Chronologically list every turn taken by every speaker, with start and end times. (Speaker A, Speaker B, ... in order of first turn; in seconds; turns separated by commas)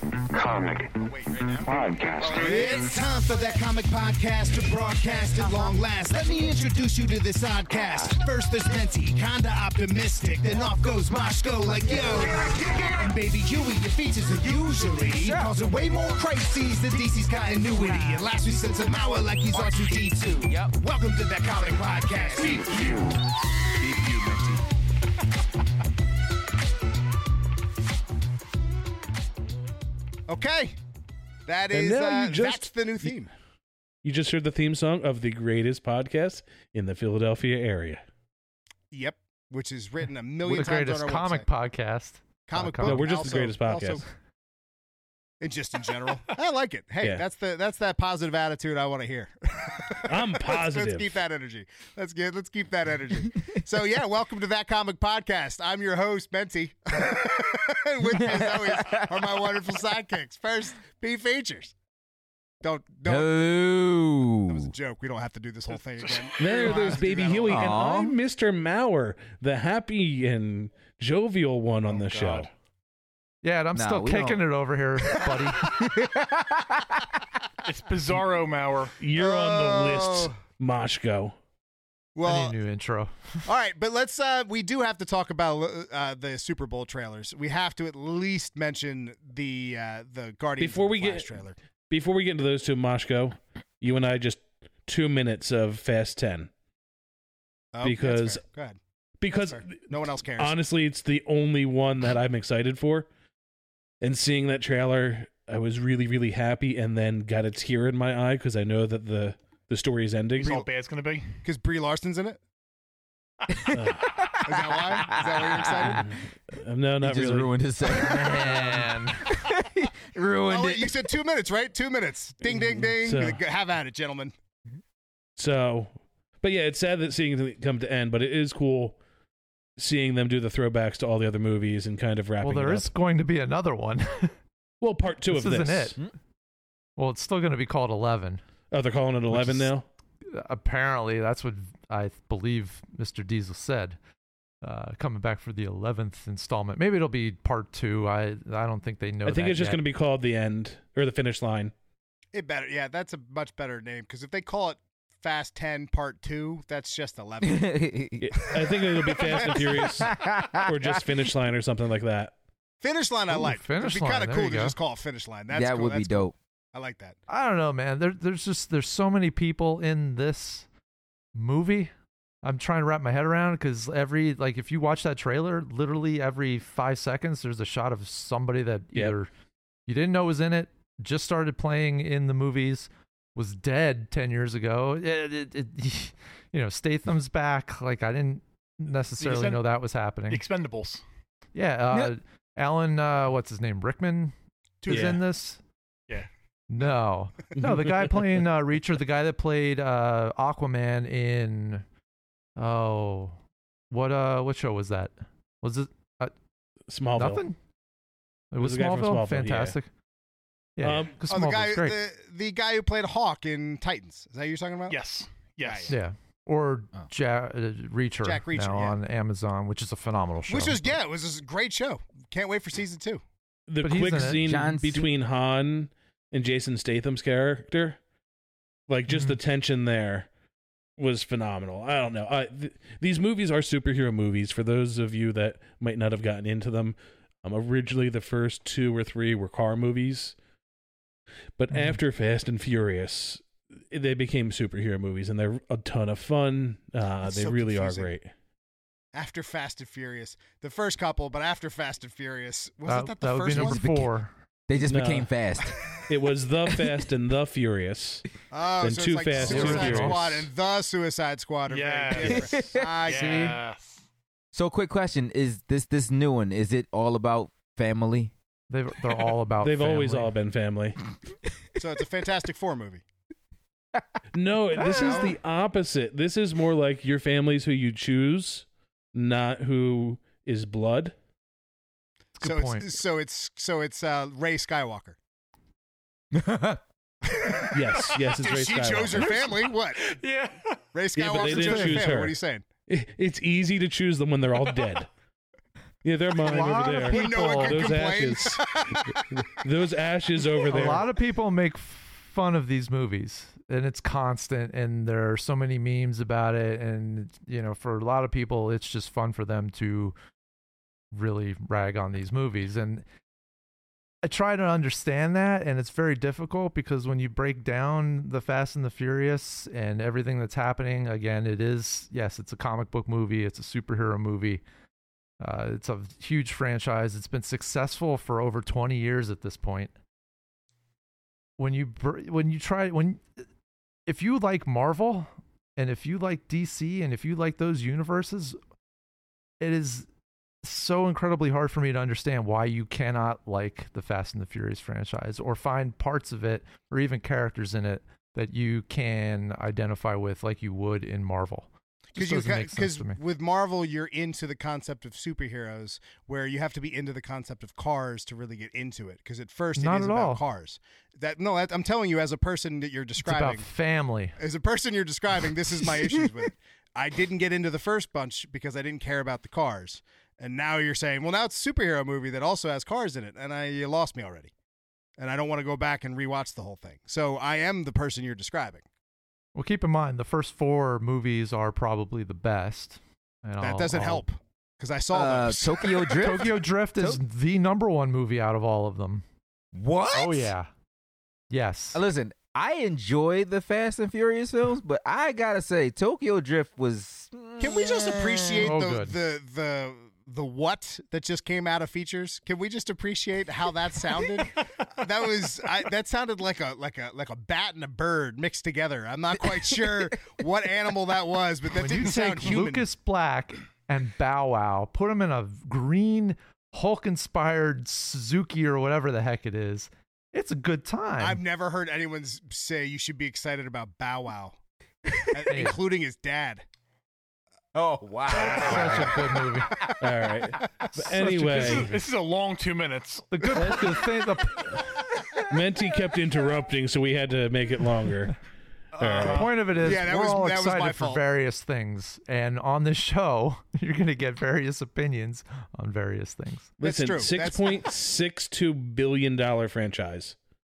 Speaker A: 0.3-1.0, Speaker B: 1.0-1.6, Speaker A: 1.6-2.8, Speaker B: 2.2-23.0, Speaker C: 15.2-15.5, Speaker C: 20.4-20.7, Speaker A: 22.5-23.1, Speaker B: 23.8-24.6, Speaker B: 30.3-30.8, Speaker B: 31.5-33.3, Speaker D: 31.7-33.1, Speaker D: 34.0-38.0, Speaker B: 38.9-41.5, Speaker E: 40.4-43.1, Speaker B: 42.5-44.0, Speaker D: 42.8-44.0, Speaker B: 45.4-61.7, Speaker D: 50.0-51.2, Speaker C: 58.7-59.1, Speaker B: 62.6-63.3, Speaker C: 63.0-64.7, Speaker B: 64.5-67.8, Speaker F: 66.0-66.8, Speaker D: 66.4-72.5, Speaker C: 67.5-68.2, Speaker F: 71.9-72.5, Speaker E: 73.4-75.7, Speaker C: 73.7-74.5, Speaker C: 75.6-77.0, Speaker F: 77.6-79.0, Speaker D: 79.0-81.3, Speaker B: 79.2-80.3, Speaker B: 82.2-82.6, Speaker E: 82.2-83.5, Speaker B: 83.5-91.5, Speaker D: 90.6-91.2, Speaker D: 91.9-96.5, Speaker B: 97.7-98.8, Speaker D: 97.8-98.4, Speaker D: 99.2-99.8, Speaker B: 99.3-100.5, Speaker D: 100.4-103.1, Speaker D: 104.0-110.6, Speaker F: 110.4-111.4, Speaker B: 111.4-112.4, Speaker C: 113.5-116.0, Speaker D: 113.7-114.2, Speaker B: 114.4-116.1, Speaker D: 115.8-117.5, Speaker C: 117.0-121.1, Speaker E: 117.9-119.3, Speaker B: 120.5-124.3, Speaker D: 123.0-123.4, Speaker D: 125.4-129.0, Speaker D: 129.8-132.9, Speaker E: 132.4-134.3, Speaker D: 134.8-135.9, Speaker E: 135.3-136.0, Speaker E: 137.0-138.4, Speaker D: 138.7-139.8, Speaker E: 139.3-139.7, Speaker E: 140.2-144.0, Speaker E: 144.6-149.8, Speaker D: 149.2-151.7, Speaker B: 152.3-157.7, Speaker C: 157.4-158.3, Speaker D: 158.2-162.3, Speaker B: 159.2-159.8, Speaker C: 159.8-160.7, Speaker B: 162.8-167.2, Speaker E: 163.3-164.8, Speaker C: 165.5-166.3, Speaker E: 167.3-170.7, Speaker E: 171.3-171.9, Speaker E: 172.4-179.3, Speaker E: 179.9-190.4, Speaker F: 189.2-189.6, Speaker F: 190.3-191.0, Speaker E: 191.5-195.6, Speaker D: 194.9-195.2, Speaker E: 196.7-201.8, Speaker D: 197.6-197.8, Speaker E: 202.6-203.4, Speaker E: 203.9-206.3, Speaker D: 206.9-207.4, Speaker E: 207.2-207.6, Speaker E: 208.5-209.9, Speaker D: 208.6-209.8, Speaker E: 210.8-212.0, Speaker D: 210.8-211.1, Speaker B: 211.3-215.0, Speaker F: 214.9-216.0, Speaker B: 215.6-215.9, Speaker E: 215.9-220.9, Speaker B: 218.2-219.0, Speaker B: 220.5-223.2, Speaker D: 223.7-228.0, Speaker E: 223.8-224.4, Speaker C: 224.4-225.1, Speaker D: 228.9-230.3, Speaker E: 229.1-229.3, Speaker D: 231.0-240.3, Speaker D: 241.6-248.3, Speaker E: 241.7-242.0, Speaker B: 247.2-248.1, Speaker B: 249.1-253.8, Speaker E: 252.9-254.3, Speaker C: 253.5-254.1, Speaker C: 254.7-256.0, Speaker D: 254.9-255.3, Speaker D: 256.1-258.2, Speaker B: 258.5-263.5, Speaker D: 258.8-260.4, Speaker E: 259.4-260.2, Speaker F: 261.7-264.0, Speaker C: 262.2-262.9, Speaker E: 263.1-263.6, Speaker C: 264.5-268.3, Speaker E: 268.7-270.3, Speaker D: 269.6-271.0, Speaker B: 271.8-273.0, Speaker D: 274.3-281.1, Speaker E: 274.8-275.1, Speaker B: 274.9-275.3, Speaker E: 282.4-282.9, Speaker B: 282.4-285.2, Speaker C: 286.3-286.8, Speaker B: 287.3-290.1, Speaker D: 287.7-289.3, Speaker F: 289.3-290.8, Speaker B: 290.9-292.6, Speaker D: 291.1-292.4, Speaker E: 291.5-292.1, Speaker D: 292.9-295.1, Speaker D: 296.0-301.1, Speaker E: 296.4-297.9, Speaker B: 297.0-299.1, Speaker E: 300.7-310.1, Speaker E: 311.1-313.0, Speaker E: 314.2-324.6, Speaker E: 325.4-329.9, Speaker E: 331.6-333.2, Speaker E: 334.1-338.6, Speaker E: 339.6-340.1, Speaker E: 340.6-353.2, Speaker B: 352.1-363.7, Speaker E: 359.8-360.4, Speaker E: 363.2-364.4, Speaker B: 364.4-374.5, Speaker B: 375.2-378.8, Speaker E: 379.6-384.2, Speaker B: 383.6-386.3, Speaker C: 385.1-387.2, Speaker E: 386.1-389.2, Speaker C: 389.7-390.5, Speaker E: 390.1-390.7, Speaker E: 391.5-392.0, Speaker C: 391.9-398.6, Speaker B: 397.6-412.9, Speaker E: 398.6-399.2, Speaker E: 411.7-421.4, Speaker B: 421.2-424.6, Speaker B: 425.3-426.6, Speaker E: 425.5-425.8, Speaker C: 427.7-429.1, Speaker F: 428.3-429.0, Speaker E: 428.4-429.8, Speaker D: 430.0-431.9, Speaker E: 430.9-431.9, Speaker F: 431.4-433.7, Speaker E: 433.3-434.9, Speaker D: 433.5-434.0, Speaker D: 435.5-438.4, Speaker F: 439.0-439.6, Speaker D: 439.0-439.5, Speaker E: 439.2-446.7, Speaker B: 439.4-441.2, Speaker B: 446.8-447.8, Speaker D: 446.8-450.4